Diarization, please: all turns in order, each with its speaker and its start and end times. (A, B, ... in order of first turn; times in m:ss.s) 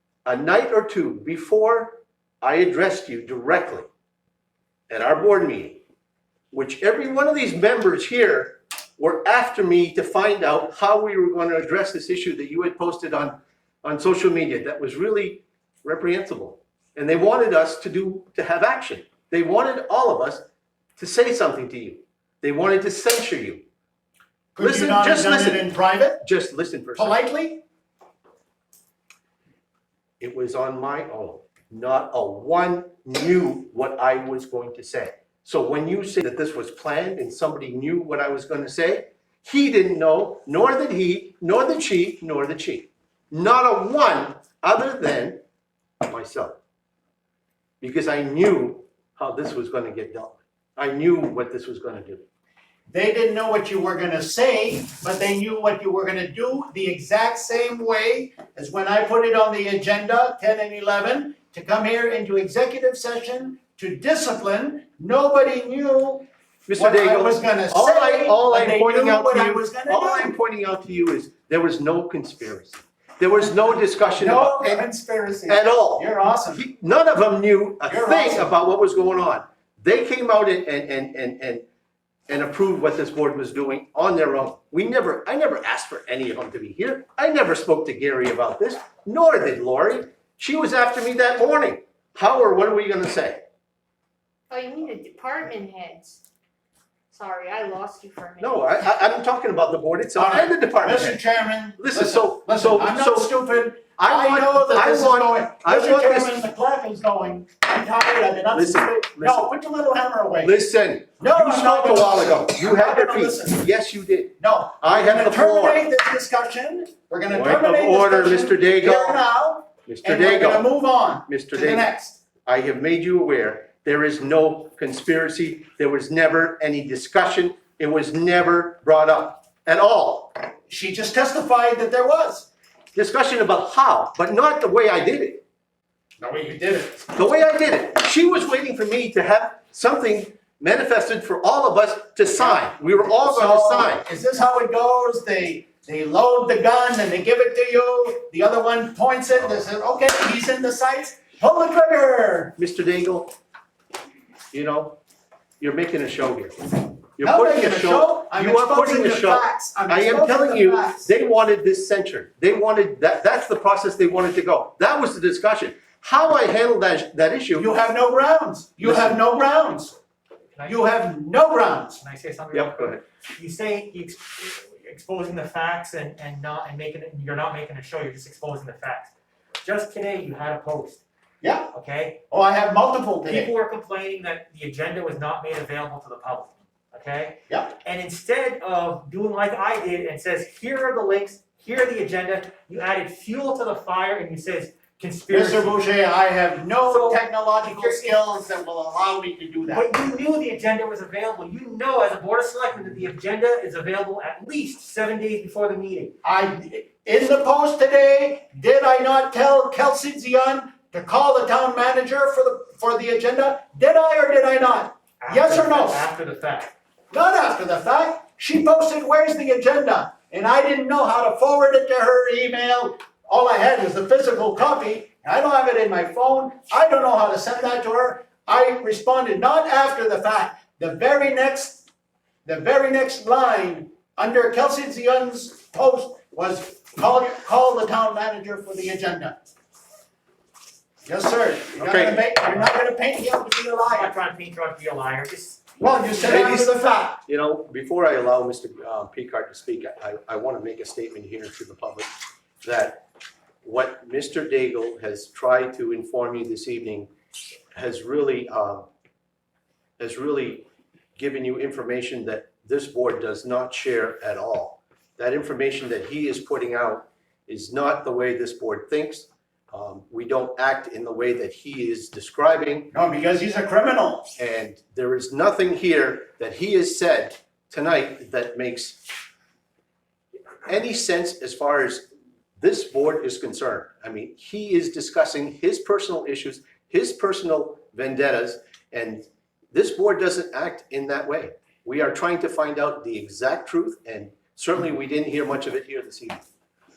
0:00.2-0:03.9 A
0:04.9-0:05.8 A
0:06.5-0:20.4 A
0:21.0-0:23.6 A
0:24.5-0:26.2 B
0:24.6-0:27.2 A
0:27.0-0:27.6 B
0:30.2-0:45.4 A
0:46.0-0:46.6 A
0:47.8-0:52.3 A
0:52.9-1:10.3 B
1:06.7-1:14.8 A
1:13.7-1:16.6 B
1:15.5-1:21.6 A
1:17.9-1:18.6 B
1:22.3-1:33.4 A
1:34.5-1:36.2 C
1:37.1-1:38.7 C
1:38.4-1:41.2 A
1:40.1-1:50.6 B
1:41.8-1:43.3 A
1:44.0-1:46.4 A
1:48.5-1:49.5 A
1:50.4-1:55.8 A
1:51.2-1:53.7 B
1:54.4-2:02.2 B
1:57.3-1:59.2 A
1:59.8-2:00.7 A
2:01.2-2:01.9 A
2:02.4-2:10.3 A
2:10.7-2:12.5 B
2:12.9-2:15.4 A
2:16.2-2:17.1 B
2:17.1-2:24.0 A
2:22.4-2:32.5 B
2:32.6-2:33.3 A
2:34.5-2:35.0 A
2:35.6-2:47.7 A
2:37.2-2:41.1 B
2:47.6-2:50.0 B
2:48.8-2:49.2 A
2:50.6-2:52.0 B
2:52.0-2:59.1 D
2:52.5-2:53.0 A
2:59.6-3:01.0 D
3:01.4-3:01.7 B
3:01.7-3:02.2 D
3:02.3-3:03.5 B
3:03.2-3:15.8 D
3:07.5-3:07.8 B
3:15.3-3:19.9 B
3:16.8-3:18.2 D
3:19.7-3:26.1 D
3:26.2-3:36.0 B
3:35.2-3:36.7 D
3:37.1-3:51.8 B
3:52.4-3:59.4 B
4:01.0-4:04.1 B
4:01.8-4:02.2 A
4:03.8-4:05.6 D
4:05.8-4:07.2 B
4:06.1-4:06.7 A
4:07.3-4:12.1 A
4:12.6-4:13.0 A
4:13.6-4:17.1 A
4:17.7-4:18.9 A
4:20.0-4:32.9 A
4:32.9-4:34.3 B
4:34.4-4:39.0 A
4:40.6-4:42.1 A
4:42.6-4:56.4 A